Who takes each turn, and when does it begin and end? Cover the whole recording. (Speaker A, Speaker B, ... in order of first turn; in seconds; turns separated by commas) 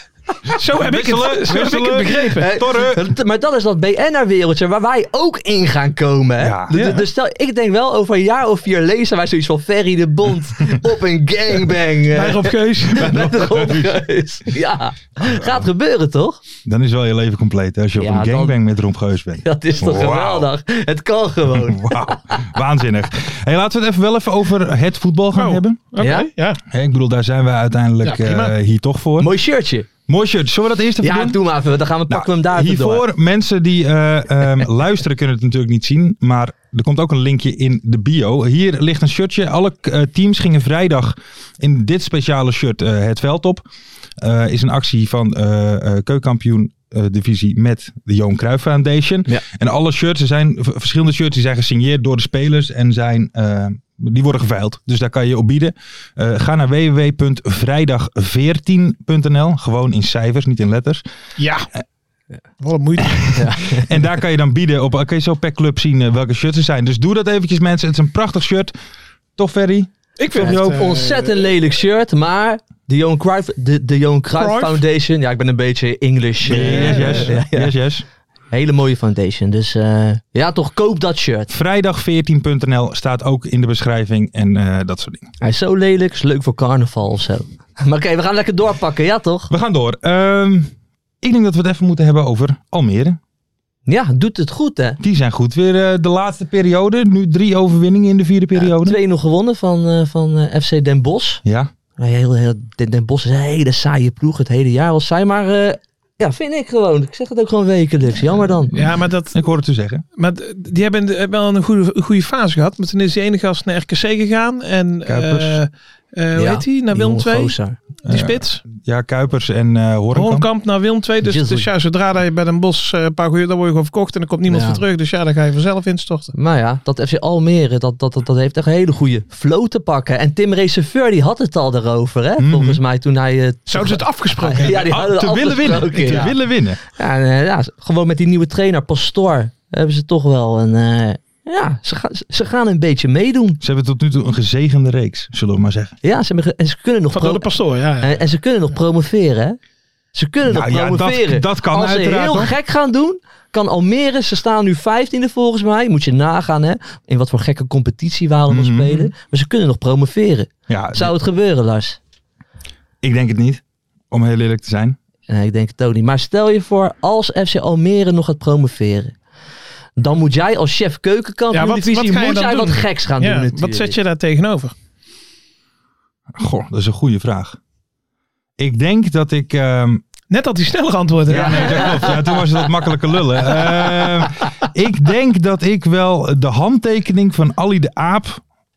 Speaker A: 0.5-2.5, Speaker B: 0.7-3.0, Speaker C: 2.4-16.4, Speaker B: 6.4-6.8, Speaker A: 6.7-7.1, Speaker A: 12.1-13.2, Speaker B: 12.9-14.0, Speaker B: 15.2-15.7, Speaker B: 16.6-20.5, Speaker C: 18.0-18.6, Speaker C: 19.4-22.2, Speaker B: 21.6-25.8, Speaker A: 25.3-26.6, Speaker C: 26.0-26.3, Speaker B: 26.7-29.3, Speaker A: 28.0-28.5, Speaker C: 29.2-29.9, Speaker B: 30.1-31.4, Speaker C: 31.0-33.0, Speaker B: 32.1-43.6, Speaker B: 44.2-61.0, Speaker A: 61.4-61.7, Speaker A: 62.6-63.4, Speaker B: 63.0-68.7, Speaker C: 63.4-64.0, Speaker B: 69.4-70.9, Speaker A: 70.2-71.5, Speaker C: 70.4-77.7, Speaker A: 74.4-74.8, Speaker A: 76.4-77.3, Speaker B: 76.5-78.0, Speaker C: 78.5-81.5, Speaker B: 81.5-85.3, Speaker C: 85.4-89.5, Speaker B: 89.5-90.7, Speaker B: 91.2-93.2, Speaker C: 93.9-95.0, Speaker B: 95.0-99.0, Speaker C: 98.5-101.4, Speaker B: 101.5-101.7, Speaker C: 102.0-108.7, Speaker A: 108.7-109.4, Speaker B: 108.8-110.0, Speaker A: 110.2-118.7, Speaker B: 115.1-115.6, Speaker C: 116.3-117.8, Speaker B: 118.1-120.5, Speaker A: 120.1-126.3, Speaker C: 121.2-121.7, Speaker C: 124.5-124.8, Speaker C: 126.3-143.6, Speaker B: 132.4-132.8, Speaker A: 133.7-134.9, Speaker B: 134.6-136.8, Speaker B: 143.6-146.0, Speaker C: 146.0-147.5, Speaker A: 147.1-148.2, Speaker C: 148.0-149.6, Speaker C: 150.1-162.0, Speaker B: 150.5-152.6, Speaker B: 158.5-159.1, Speaker B: 160.7-161.1, Speaker B: 163.0-165.0, Speaker C: 165.3-169.2, Speaker C: 170.0-174.0, Speaker A: 171.5-174.7, Speaker B: 176.4-177.6, Speaker B: 178.6-180.0, Speaker A: 180.3-182.2, Speaker B: 181.3-188.4, Speaker C: 181.4-182.1